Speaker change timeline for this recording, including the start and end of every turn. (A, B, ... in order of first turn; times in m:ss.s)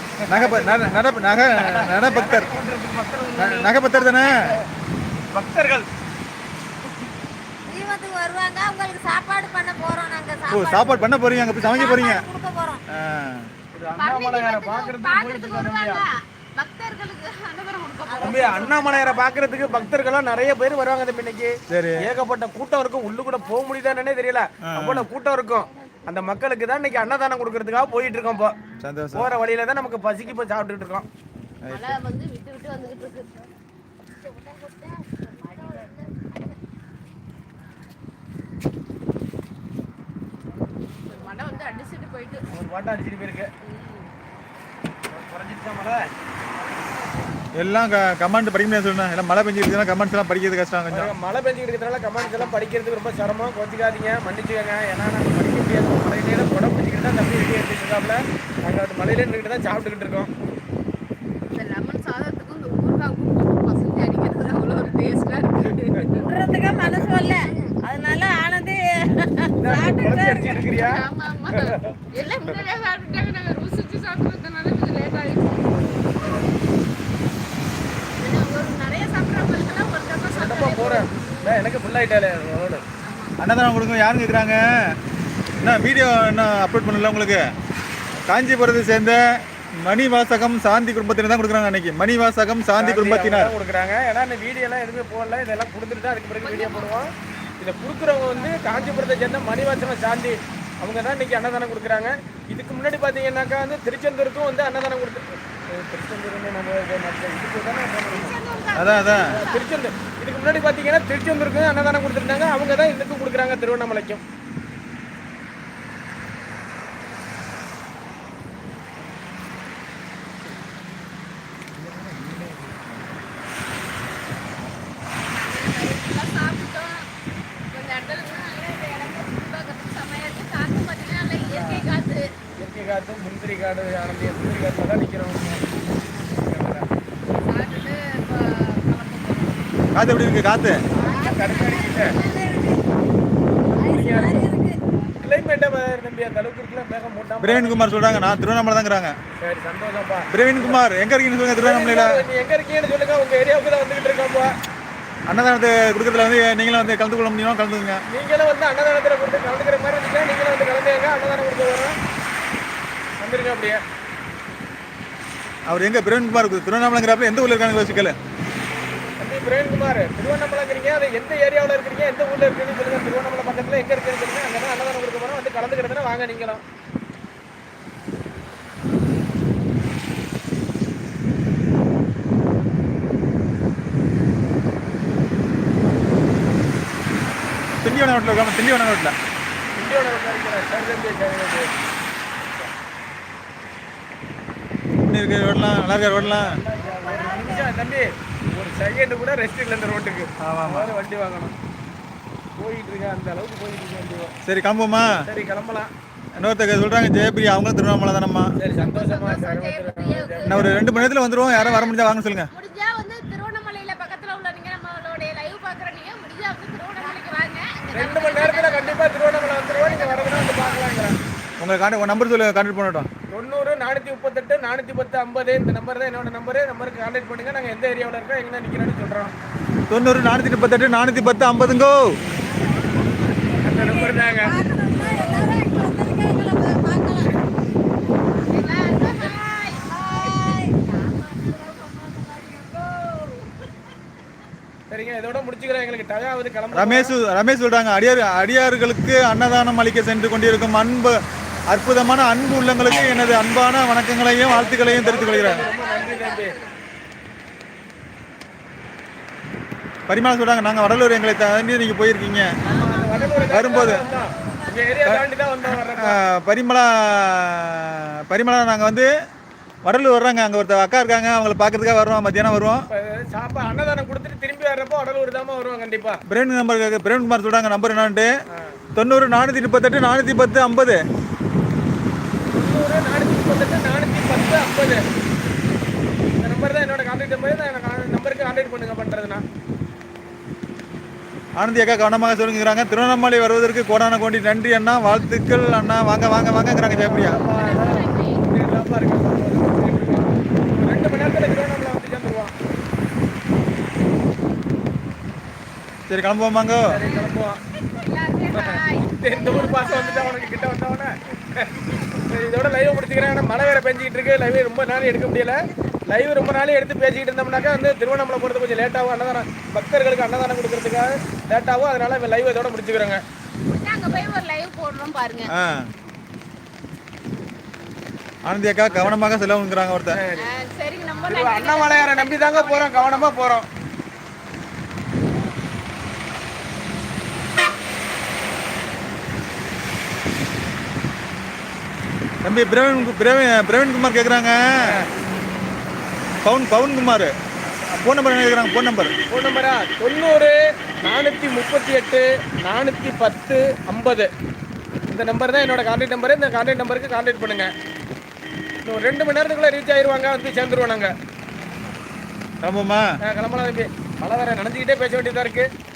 0:00.3-0:03.7 A
0:00.3-0:02.5 B
0:03.4-0:04.4 B
0:04.4-0:04.6 A
0:05.3-0:05.9 A
0:07.7-0:12.8 C
0:10.5-0:12.2 B
0:12.9-0:13.5 B
0:13.7-0:16.1 A
0:14.0-0:16.1 D
0:16.6-0:19.2 D
0:18.1-0:18.7 C
0:18.2-0:28.6 A
0:21.7-0:22.0 B
0:24.6-0:25.1 B
0:28.8-0:29.3 B
0:29.1-0:31.1 A
0:31.6-0:32.0 B
0:31.7-0:33.4 D
0:41.0-0:42.5 D
0:42.5-0:43.5 A
0:43.6-0:44.1 D
0:45.1-0:46.1 A
0:47.6-0:51.1 B
0:50.9-1:00.3 A
1:01.5-1:06.3 D
1:06.2-1:10.6 C
1:07.3-1:07.7 D
1:09.6-1:11.0 A
1:10.7-1:15.7 D
1:18.2-1:21.6 D
1:20.3-1:22.8 A
1:23.0-1:23.3 D
1:23.4-1:24.6 B
1:25.6-1:27.4 B
1:28.3-1:29.2 B
1:29.8-1:33.5 B
1:32.8-1:48.4 A
1:36.4-1:37.0 D
1:38.3-1:39.2 D
1:48.1-1:49.7 D
1:48.8-1:49.2 B
1:49.2-1:54.2 A
2:01.8-2:02.9 B
2:05.3-2:07.1 D
2:07.7-2:12.3 D
2:11.5-2:11.8 A
2:12.6-2:16.9 A
2:17.4-2:19.9 D
2:19.9-2:20.8 B
2:20.9-2:22.1 D
2:21.0-2:22.2 A
2:21.3-2:22.8 C
2:23.6-2:24.5 A
2:23.7-2:24.8 C
2:25.2-2:28.2 A
2:27.4-2:29.2 B
2:29.4-2:30.8 A
2:30.3-2:32.2 B
2:31.6-2:34.6 A
2:35.3-2:38.0 B
2:38.1-2:42.0 A
2:43.2-2:43.8 A
2:45.7-2:48.2 B
2:49.2-2:56.6 A
3:07.8-3:09.1 B
3:09.8-3:11.7 A
3:15.0-3:16.5 B
3:16.1-3:21.5 A
3:17.0-3:17.6 C
3:20.4-3:20.9 B
3:22.6-3:24.3 A
3:24.4-3:25.1 B
3:25.2-3:25.9 A
3:26.4-3:28.5 B
3:28.6-3:30.8 A
3:28.7-3:32.0 D
3:30.5-3:32.5 B
3:32.5-3:41.0 D
3:37.9-3:41.2 A
3:41.6-3:43.1 B
3:43.3-3:49.3 A
3:49.9-3:52.1 B
3:52.4-3:57.4 C
3:53.6-3:54.6 A
3:58.4-4:00.6 D
3:59.0-4:03.5 C
4:04.9-4:07.1 A
4:06.7-4:11.2 B
4:11.7-4:15.7 B
4:14.6-4:16.6 A
4:15.4-4:16.6 D
4:20.1-4:22.5 B
4:22.6-4:26.2 A
4:22.7-4:25.0 C
4:23.5-4:24.1 B
4:25.9-4:29.1 B
4:29.8-4:32.8 B
4:32.9-4:36.2 A
4:36.3-4:38.3 B
4:38.5-4:38.8 A
4:39.0-4:41.0 B
4:42.5-4:45.0 A
4:46.4-4:49.4 A
4:51.6-4:57.4 B
4:56.8-5:02.5 A
4:57.4-4:58.4 D
5:06.1-5:06.9 B
5:06.9-5:07.6 A
5:07.0-5:10.7 D
5:08.5-5:23.2 A
5:11.9-5:13.8 D
5:23.7-5:25.5 D
5:25.5-5:25.9 B
5:28.5-5:30.2 B
5:28.9-5:29.1 A
5:30.1-5:30.5 A
5:30.4-5:33.4 D
5:31.2-5:33.7 A
5:42.4-5:44.9 B
5:44.8-5:45.1 A
5:46.4-5:47.3 B
5:47.6-5:48.0 A
5:48.0-5:49.1 B
5:49.3-5:54.3 A
5:55.1-5:57.7 A
5:58.8-6:01.1 A
6:02.6-6:03.1 B
6:03.2-6:05.7 A